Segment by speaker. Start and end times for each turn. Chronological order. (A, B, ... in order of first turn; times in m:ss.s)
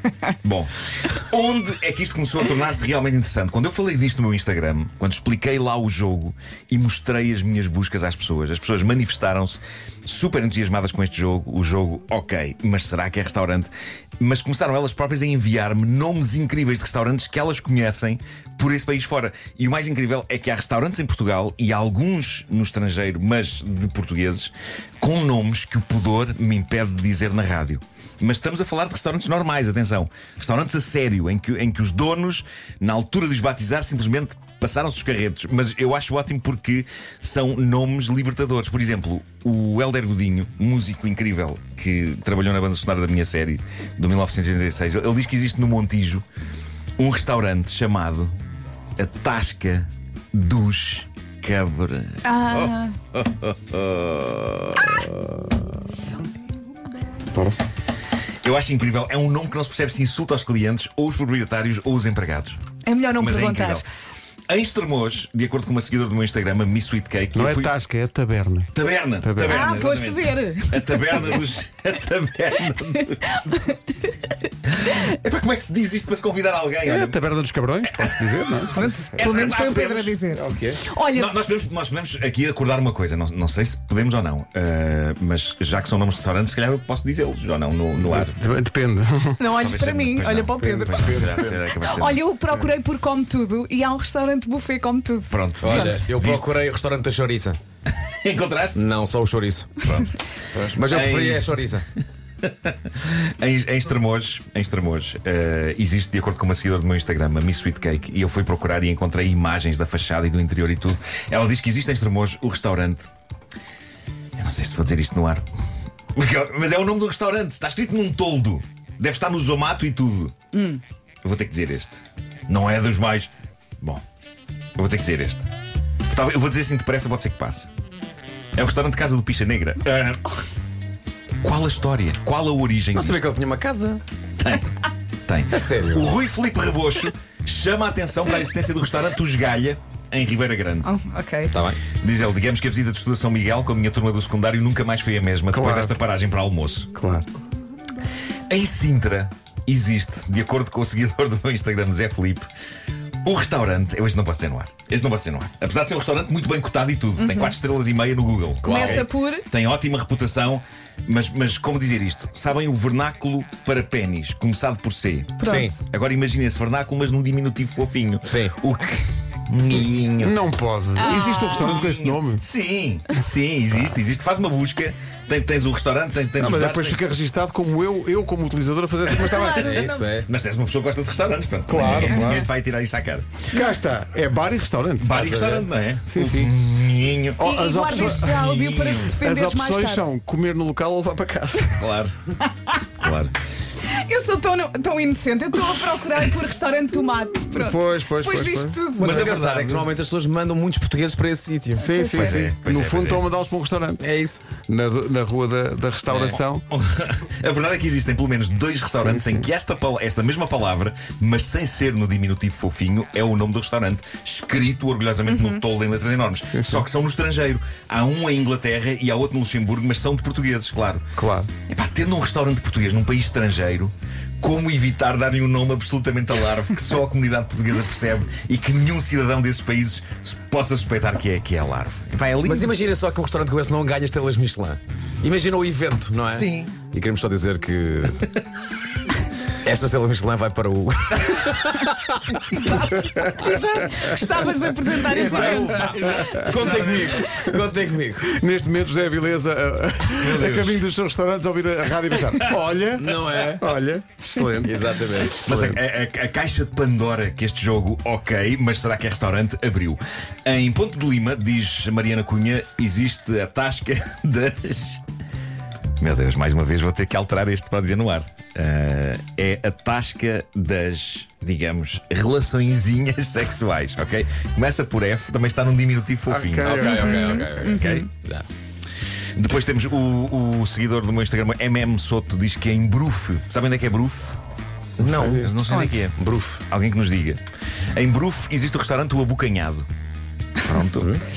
0:00.4-0:46.2 A
0:47.0-0:48.3 A
0:49.0-0:55.4 A
0:52.2-0:52.9 B
0:58.4-1:02.6 A
1:02.8-1:03.8 B
1:03.1-1:03.8 A
1:04.5-1:07.7 A
1:07.3-1:09.6 C
1:08.7-1:13.5 A
1:09.5-1:11.2 B
1:13.4-1:13.8 B
1:14.7-1:17.2 A
1:16.8-1:18.8 C
1:17.9-1:18.1 A
1:18.7-1:21.3 B
1:19.1-1:20.2 A
1:20.3-1:20.8 C
1:20.9-1:28.4 A
1:28.0-1:29.4 C
1:29.4-1:36.0 B
1:29.5-1:32.2 A
1:30.6-1:31.5 C
1:35.3-1:36.6 A
1:35.6-1:37.6 D
1:38.0-1:38.8 A
1:38.7-1:39.8 D
1:39.8-1:40.2 A
1:40.7-1:41.8 D
1:40.8-1:53.1 A
1:54.4-1:55.4 A
1:56.1-2:00.4 A
2:00.5-2:00.8 B
2:01.2-2:04.0 A
2:04.8-2:05.5 A
2:06.0-2:07.7 A
2:08.5-2:10.2 A
2:11.4-2:13.2 A
2:12.9-2:14.0 D
2:14.4-2:14.7 A
2:15.3-2:20.9 A
2:15.5-2:16.2 D
2:20.8-2:21.5 B
2:21.5-2:21.8 D
2:21.8-2:26.9 A
2:25.5-2:25.9 C
2:26.9-2:27.3 C
2:28.5-2:32.5 A
2:33.2-2:50.4 A
2:37.2-2:37.5 B
2:38.6-2:39.0 D
2:38.6-2:39.4 B
2:45.4-2:45.7 B
2:45.4-2:45.7 D
2:48.2-2:48.5 D
2:50.2-2:52.4 C
2:51.0-2:51.6 B
2:51.0-2:57.2 A
2:56.4-2:59.8 C
2:59.2-2:59.9 B
2:59.2-3:03.3 A
2:59.5-3:00.3 D
3:01.7-3:02.5 C
3:01.9-3:02.4 B
3:03.5-3:05.2 C
3:05.0-3:09.1 A
3:05.1-3:05.7 D
3:06.1-3:06.5 C
3:07.4-3:08.4 C
3:07.4-3:10.0 B
3:09.1-3:11.8 C
3:11.8-3:12.2 A
3:13.0-3:13.4 A
3:13.9-3:19.2 B
3:17.5-3:18.8 C
3:19.0-3:21.8 D
3:19.0-3:19.9 A
3:21.8-3:24.0 C
3:21.8-3:22.4 B
3:22.1-3:23.3 A
3:24.0-3:24.4 D
3:24.7-3:26.6 C
3:26.1-3:41.0 A
3:28.9-3:29.5 C
3:35.3-3:35.6 B
3:36.5-3:36.8 C
3:41.2-3:41.5 C
3:41.7-3:52.7 A
3:52.4-3:58.2 D
3:56.3-3:56.7 A
3:59.6-4:02.4 D
4:02.5-4:03.5 A
4:03.3-4:03.6 D
4:03.4-4:06.2 B
4:05.1-4:07.3 A
4:05.1-4:08.3 D
4:05.2-4:05.6 C
4:06.1-4:06.4 C
4:08.3-4:15.8 C
4:10.1-4:10.8 A
4:12.1-4:12.6 A
4:13.0-4:13.7 D
4:14.6-4:15.4 D
4:15.4-4:25.0 A
4:26.0-4:38.1 A
4:36.3-4:37.1 C
4:36.6-4:38.5 D
4:36.8-4:38.0 B
4:39.4-4:44.4 A
4:45.0-4:47.4 A
4:45.0-4:45.5 C
4:45.7-4:46.0 B
4:46.2-4:46.4 D
4:46.2-4:46.5 C
4:47.9-4:49.9 A
4:50.7-4:51.1 A
4:50.8-4:51.2 D